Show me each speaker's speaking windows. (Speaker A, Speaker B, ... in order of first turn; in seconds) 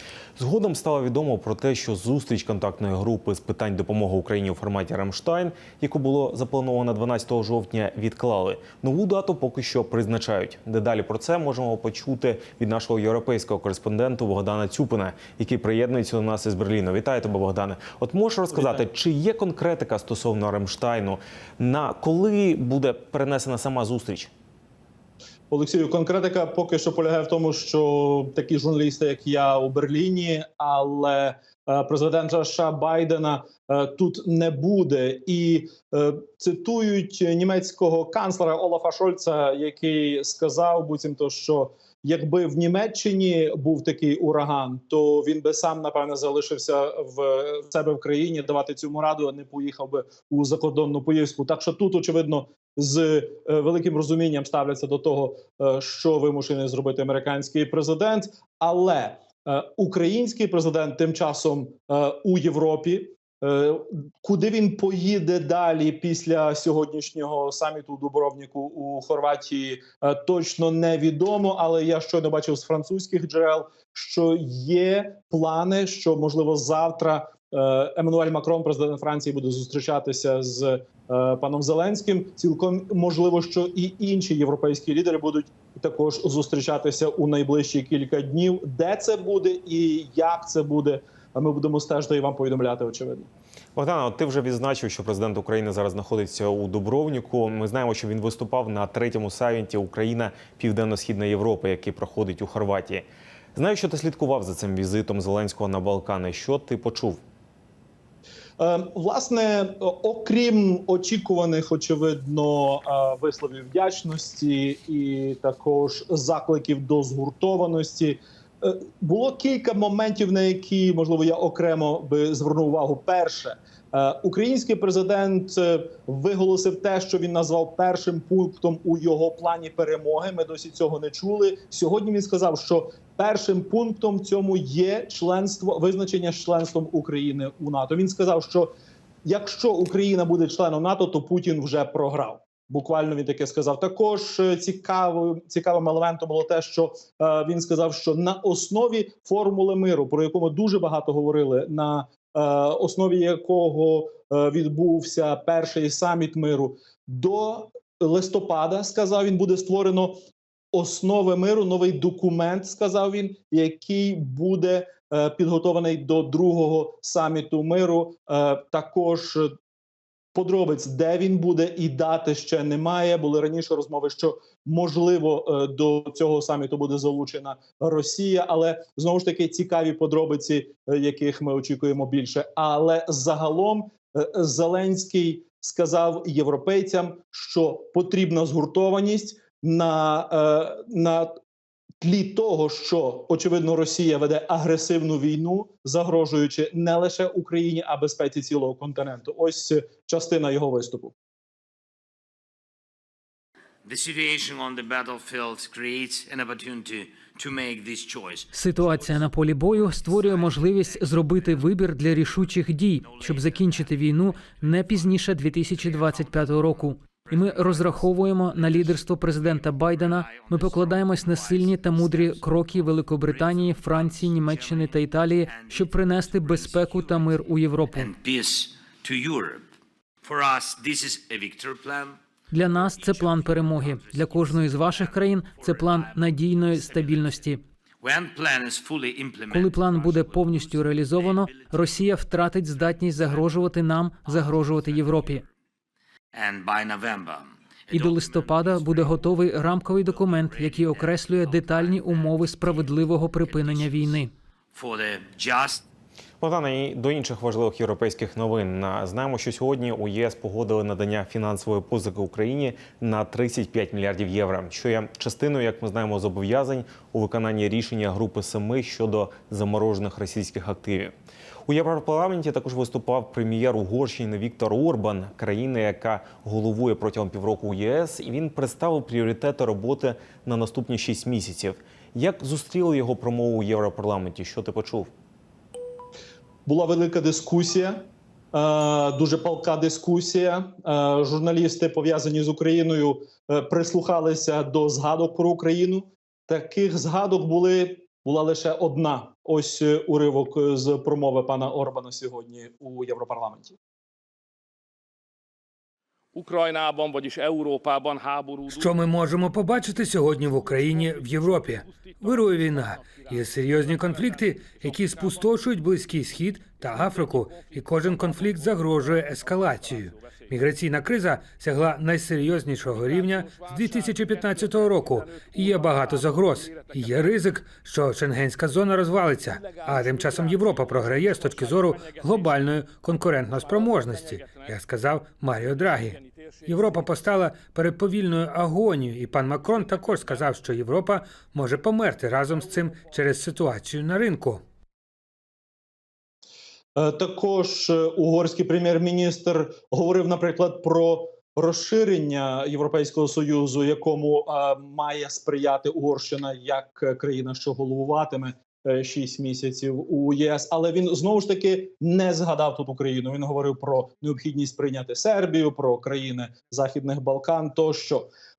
Speaker A: 0.4-24.3, 93.8-107.2, 256.4-271.1, 271.7-285.1
Speaker B: 25.5-93.3, 108.6-138.7, 139.2-160.2, 160.7-169.5, 170.3-191.3, 192.0-201.1, 286.6-303.8, 346.9-368.3
Speaker C: 203.8-229.7, 230.2-242.1, 242.7-243.7, 244.2-245.5, 246.3-255.8
Speaker D: 208.5-228.2, 232.5-237.6, 239.5-245.4, 247.9-254.3
Speaker E: 306.3-308.9, 310.4-315.6, 316.8-320.6, 322.8-327.4, 329.4-332.6, 333.5-334.8, 335.7-337.2, 339.6-340.5, 342.5-343.3
Speaker F: 308.7-344.6